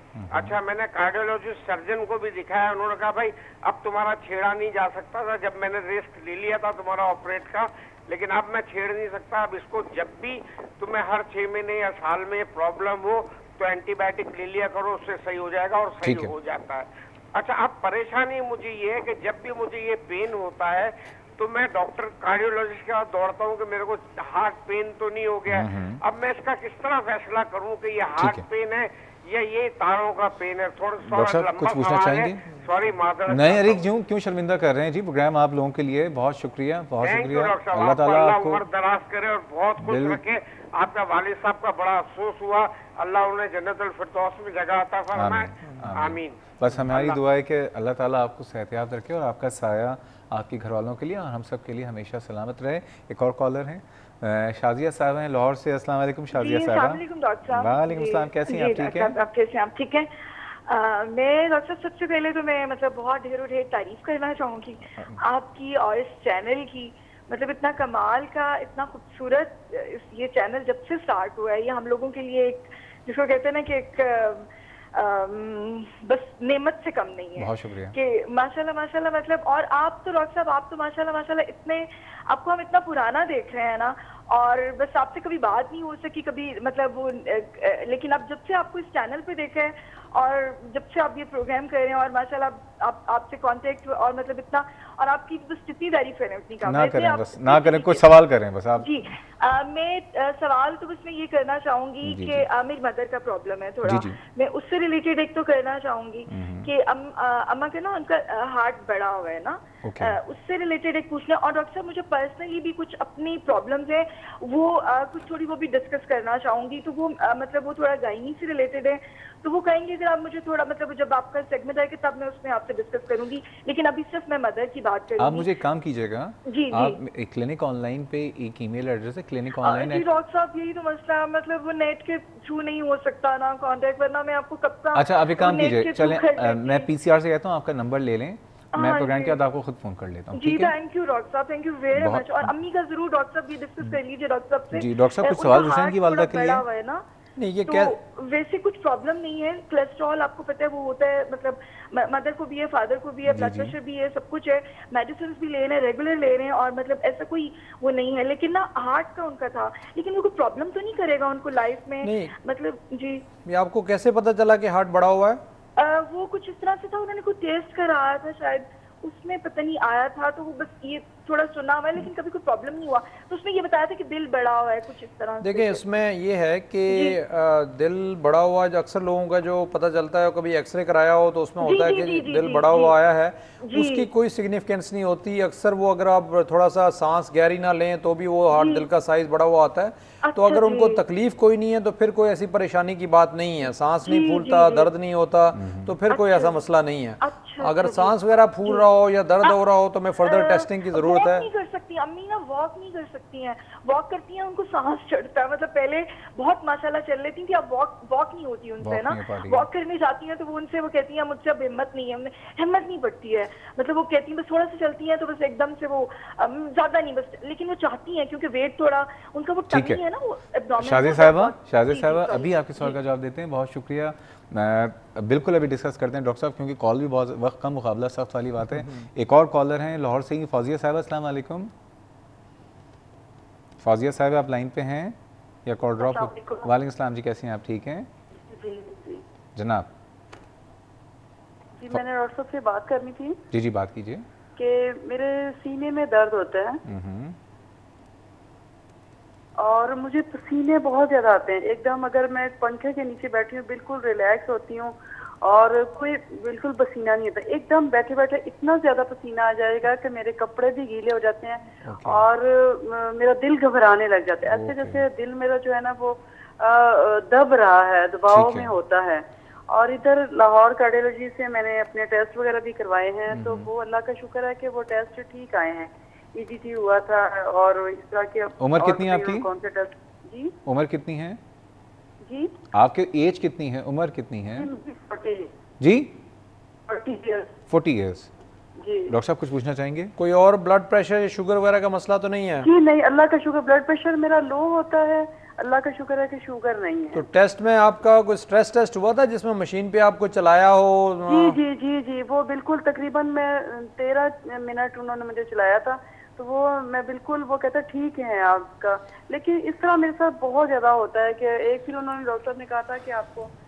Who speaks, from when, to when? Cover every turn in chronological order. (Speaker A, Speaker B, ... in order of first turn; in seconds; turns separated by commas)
Speaker A: 0.1-0.5, Speaker B: 0.3-33.8, Speaker A: 16.0-16.3, Speaker A: 25.5-26.0, Speaker A: 28.1-28.4, Speaker A: 31.1-32.4, Speaker A: 33.2-38.6, Speaker B: 37.0-47.2, Speaker A: 39.8-40.2, Speaker A: 45.1-59.1, Speaker C: 56.3-98.0, Speaker A: 77.4-77.9, Speaker A: 96.6-98.9, Speaker C: 98.8-125.5, Speaker A: 102.0-102.5, Speaker A: 103.8-104.2, Speaker A: 106.3-106.7, Speaker A: 109.8-110.2, Speaker A: 125.2-130.1, Speaker C: 126.5-127.0, Speaker C: 129.6-136.9, Speaker A: 134.9-140.7, Speaker C: 138.7-139.4, Speaker C: 140.3-147.0, Speaker A: 141.9-142.6, Speaker A: 144.7-146.6, Speaker D: 147.4-147.9, Speaker C: 147.7-163.2, Speaker A: 153.2-153.8, Speaker D: 162.0-162.3, Speaker D: 163.4-165.4, Speaker C: 165.8-175.8, Speaker D: 175.4-201.4, Speaker C: 176.9-177.2, Speaker C: 181.6-183.0, Speaker C: 183.6-184.1, Speaker C: 188.5-188.9, Speaker C: 190.2-191.0, Speaker C: 194.0-194.9, Speaker A: 195.5-195.9, Speaker C: 196.1-196.6, Speaker C: 197.2-198.8, Speaker C: 200.2-223.0, Speaker A: 208.8-209.7, Speaker A: 219.7-220.0, Speaker A: 220.8-231.7, Speaker A: 233.8-238.1, Speaker E: 236.0-236.7, Speaker E: 238.5-239.2, Speaker A: 239.5-239.9, Speaker E: 241.8-243.4, Speaker A: 243.5-244.2, Speaker E: 244.6-246.8, Speaker A: 246.8-247.4, Speaker E: 249.6-280.5, Speaker A: 261.8-262.3, Speaker A: 264.5-265.0, Speaker A: 268.3-268.7, Speaker A: 273.3-273.7, Speaker A: 278.6-279.5, Speaker A: 280.6-281.4, Speaker E: 282.2-282.5, Speaker A: 282.7-284.7, Speaker E: 284.5-285.5, Speaker A: 285.8-286.1, Speaker E: 286.9-287.5, Speaker A: 287.7-288.3, Speaker E: 288.8-289.1, Speaker A: 289.1-290.1, Speaker D: 290.2-292.7, Speaker E: 292.6-297.2, Speaker D: 297.1-301.6, Speaker E: 301.3-313.5